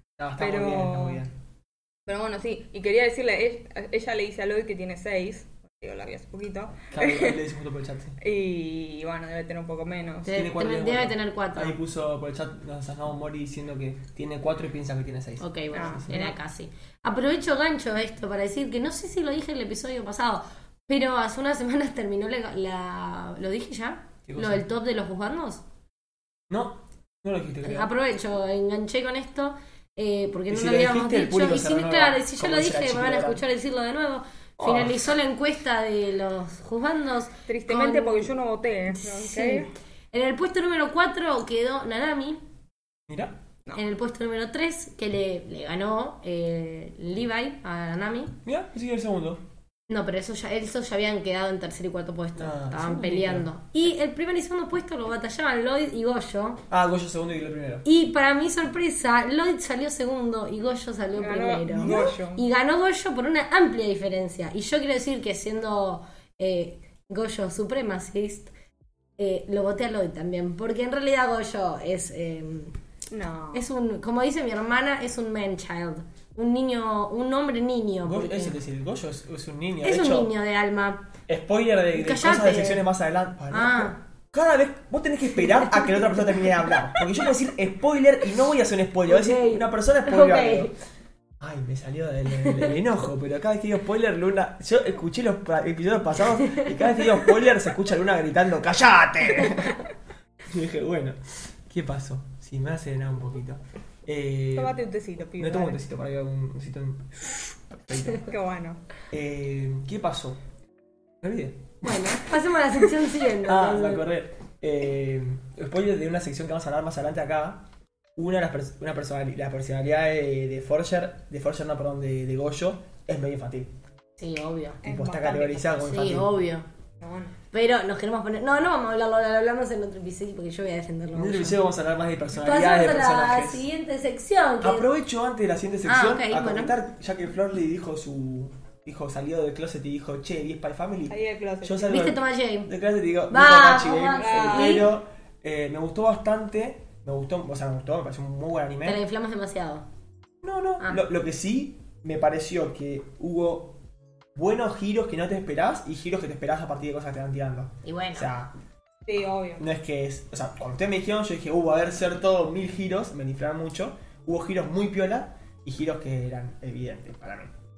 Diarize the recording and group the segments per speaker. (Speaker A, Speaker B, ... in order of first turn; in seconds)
Speaker A: 0.2-1.3, 6.9-8.2, 10.3-16.3, 24.3-24.6, 26.5-27.9, 30.5-33.4, 34.6-35.0, 43.1-43.4, 48.5-49.4, 52.4-53.5, 56.7-57.9, 61.8-62.1, 78.0-80.3, 81.3-90.7, 91.4-99.8, 100.5-104.8, 105.4-108.3, 109.1-110.4, 111.2-112.0, 113.4-117.7, 118.2-123.7, 124.8-126.4, 131.1-133.7, 134.6-149.0, 150.4-153.8, 154.3-158.5, 159.6-167.5
Speaker B: 0.4-1.2, 2.1-7.5, 8.2-10.4, 15.7-16.3, 37.5-39.7, 61.2-62.4, 73.1-73.7, 104.5-105.8, 108.2-108.8, 124.8-125.8, 127.0-127.4, 141.1-142.0, 144.2-144.9, 159.1-159.7
Speaker C: 10.3-11.8, 15.4-25.6, 27.6-38.3, 38.9-42.4, 43.8-48.4, 49.9-56.6, 57.9-68.5, 69.2-72.8, 73.5-78.6, 79.8-81.1, 81.9-82.9, 83.5-84.0, 89.1-90.7, 92.4-92.7, 96.4-96.8, 111.8-114.1, 124.2-124.8, 125.8-126.7, 127.5-131.6, 132.4-134.9, 135.8-136.8, 141.9-142.7, 143.3-144.9, 148.8-149.9, 157.8-158.3